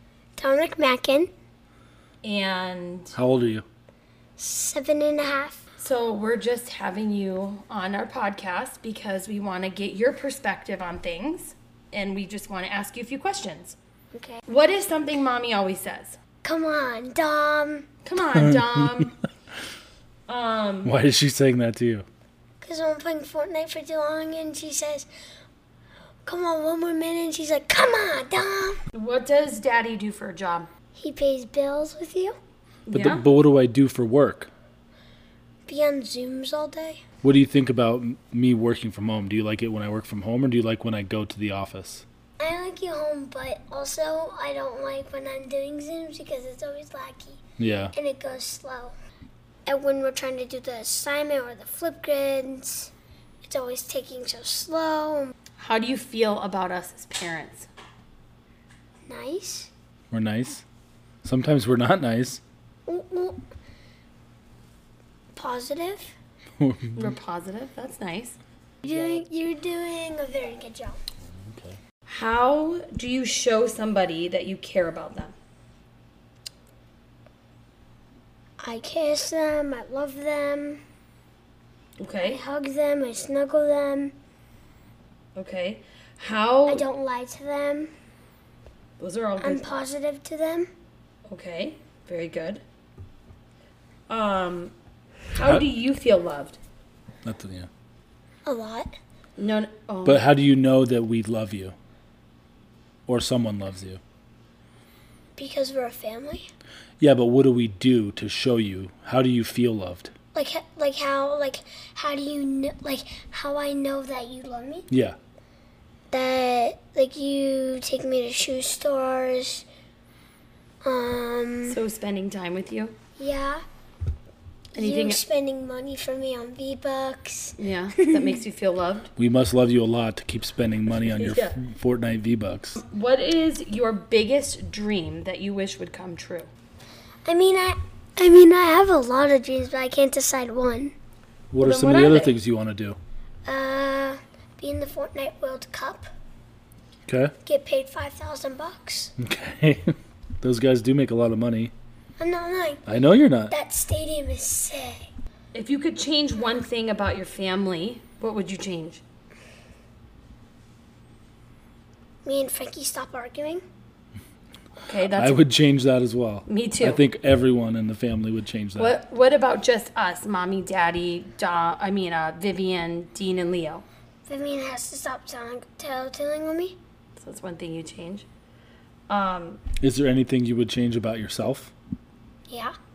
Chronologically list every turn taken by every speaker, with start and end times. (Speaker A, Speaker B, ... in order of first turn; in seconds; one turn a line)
Speaker A: 0.4-1.3
Speaker B: 2.2-3.2
Speaker C: 3.1-3.6
Speaker A: 4.4-5.6
Speaker B: 5.8-13.8
Speaker A: 14.1-14.4
Speaker B: 14.5-16.2
Speaker A: 16.4-17.9
Speaker B: 18.0-19.1
Speaker C: 18.3-19.1
Speaker B: 20.3-20.9
Speaker C: 20.8-22.1
Speaker A: 22.6-25.1
Speaker A: 26.2-28.8
Speaker B: 28.9-30.7
Speaker A: 30.9-32.4
Speaker B: 32.9-33.2
Speaker C: 32.9-34.5
Speaker A: 35.7-37.0
Speaker C: 37.2-42.0
Speaker A: 42.4-48.9
Speaker C: 47.6-47.9
Speaker A: 49.6-52.9
Speaker A: 53.4-55.3
Speaker B: 55.6-57.7
Speaker A: 59.1-59.7
Speaker C: 60.1-60.6
Speaker C: 61.2-62.4
Speaker A: 62.9-63.4
Speaker A: 65.3-66.1
Speaker C: 66.6-67.1
Speaker B: 66.9-68.4
Speaker A: 68.8-71.0
Speaker C: 71.2-71.8
Speaker B: 72.1-75.3
Speaker A: 78.6-80.8
Speaker B: 82.0-82.4
Speaker A: 82.2-84.2
Speaker B: 85.3-86.8
Speaker A: 86.7-87.9
Speaker B: 89.0-89.7
Speaker A: 89.4-90.7
Speaker B: 91.2-92.6
Speaker B: 94.1-94.7
Speaker B: 95.3-96.6
Speaker C: 97.2-97.7
Speaker A: 98.4-98.9
Speaker B: 99.4-100.2
Speaker C: 100.0-101.7
Speaker C: 103.1-104.0
Speaker A: 105.4-106.5
Speaker C: 107.0-110.1
Speaker A: 110.3-114.8
Speaker C: 114.9-115.2
Speaker A: 116.1-119.7
Speaker A: 120.8-121.8
Speaker B: 121.7-122.9
Speaker A: 123.2-123.6
Speaker A: 124.7-128.4
Speaker B: 124.7-125.2
Speaker B: 127.6-129.1
Speaker C: 129.2-132.8
Speaker B: 131.1-131.6
Speaker B: 132.8-136.5
Speaker A: 137.2-140.9
Speaker C: 141.5-143.0
Speaker B: 141.6-142.3
Speaker A: 143.4-146.0
Speaker C: 147.1-147.3
Speaker A: 147.4-149.1
Speaker C: 149.2-151.7
Speaker A: 152.2-152.8
Speaker C: 152.9-153.5
Speaker A: 153.5-155.1
Speaker B: 155.5-159.0
Speaker A: 162.2-163.6
Speaker B: 164.8-165.4
Speaker C: 165.1-169.0
Speaker B: 166.5-167.0
Speaker B: 168.8-173.8
Speaker A: 174.2-176.8
Speaker B: 177.2-178.3
Speaker B: 179.1-179.6
Speaker C: 179.8-181.7
Speaker A: 182.5-182.7